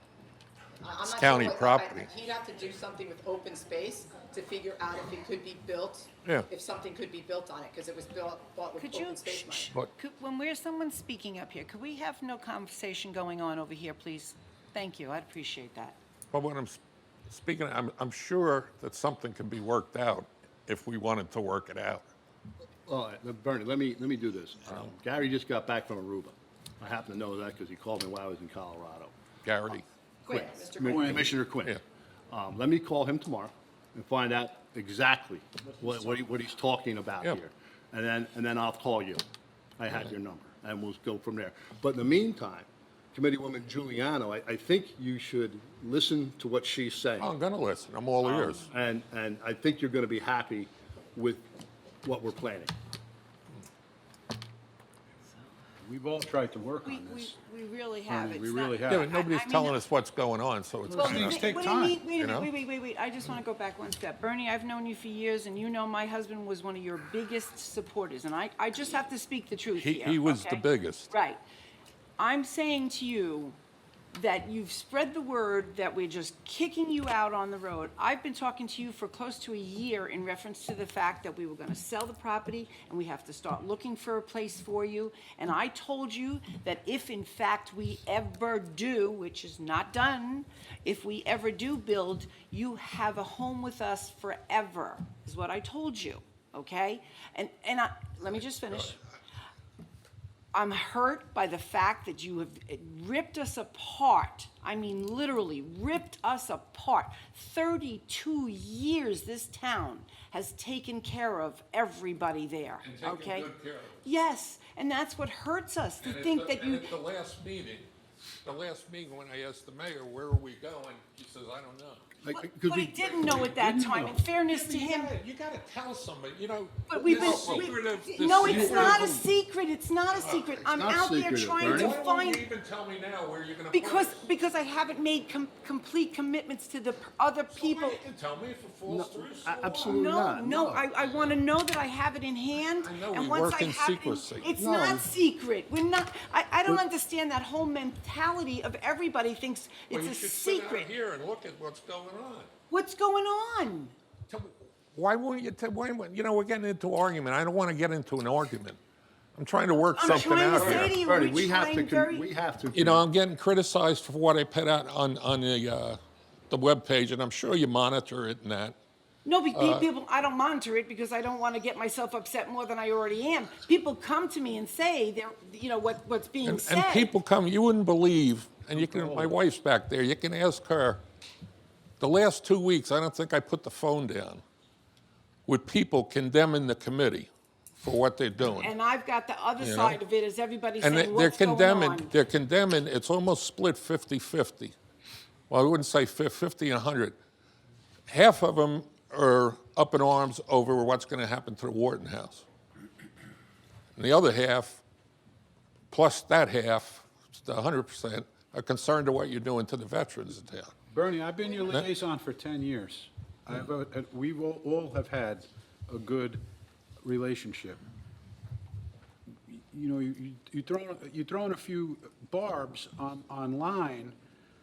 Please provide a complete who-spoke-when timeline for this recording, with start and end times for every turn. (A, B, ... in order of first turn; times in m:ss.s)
0:00.8-0:09.7 A
0:01.1-0:02.1 B
0:08.8-0:16.0 C
0:16.3-0:22.1 B
0:22.9-0:29.1 D
0:29.4-0:29.9 B
0:29.7-0:31.8 D
0:30.2-0:31.3 A
0:30.8-0:31.2 E
0:32.3-0:39.2 D
0:39.8-0:47.3 D
0:47.2-0:48.7 B
0:48.2-0:51.4 D
0:52.0-0:52.7 D
0:55.8-0:57.4 E
0:56.8-0:59.8 C
0:58.1-0:59.1 E
0:58.9-1:01.6 B
1:00.9-1:02.0 E
1:00.9-1:11.4 C
1:02.2-1:02.5 B
1:09.7-1:11.1 B
1:12.2-1:13.6 C
1:14.1-1:39.0 C
1:40.5-1:53.5 C
1:52.8-1:54.0 B
1:54.0-1:56.9 C
1:56.0-1:57.9 B
1:58.4-2:02.1 B
2:02.2-2:03.5 D
2:02.3-2:05.1 C
2:03.5-2:04.2 E
2:04.5-2:09.1 B
2:06.9-2:12.4 C
2:08.4-2:09.1 D
2:10.1-2:10.7 B
2:10.6-2:12.0 D
2:11.6-2:14.2 B
2:13.7-2:18.0 C
2:17.5-2:20.0 B
2:18.9-2:20.8 D
2:19.8-2:30.9 C
2:21.0-2:21.4 B
2:22.8-2:24.5 B
2:24.6-2:25.1 D
2:29.9-2:32.5 B
2:32.7-2:33.9 C
2:34.3-2:38.8 B
2:39.3-2:40.9 B
2:39.9-2:42.2 C
2:40.1-2:43.0 D
2:42.7-2:46.0 B
2:46.5-2:48.8 B
2:49.2-2:57.1 C
2:49.5-2:49.9 B
2:56.4-3:01.0 B
2:58.7-2:59.4 E
3:02.0-3:04.4 B
3:05.4-3:08.7 B
3:08.5-3:12.1 C
3:09.6-3:10.0 B
3:10.8-3:14.8 B
3:15.5-3:17.2 B
3:18.1-3:22.4 B
3:24.0-3:24.8 B
3:25.9-3:30.7 B
3:30.9-3:36.4 E
3:37.0-3:37.8 E
3:39.5-3:44.2 E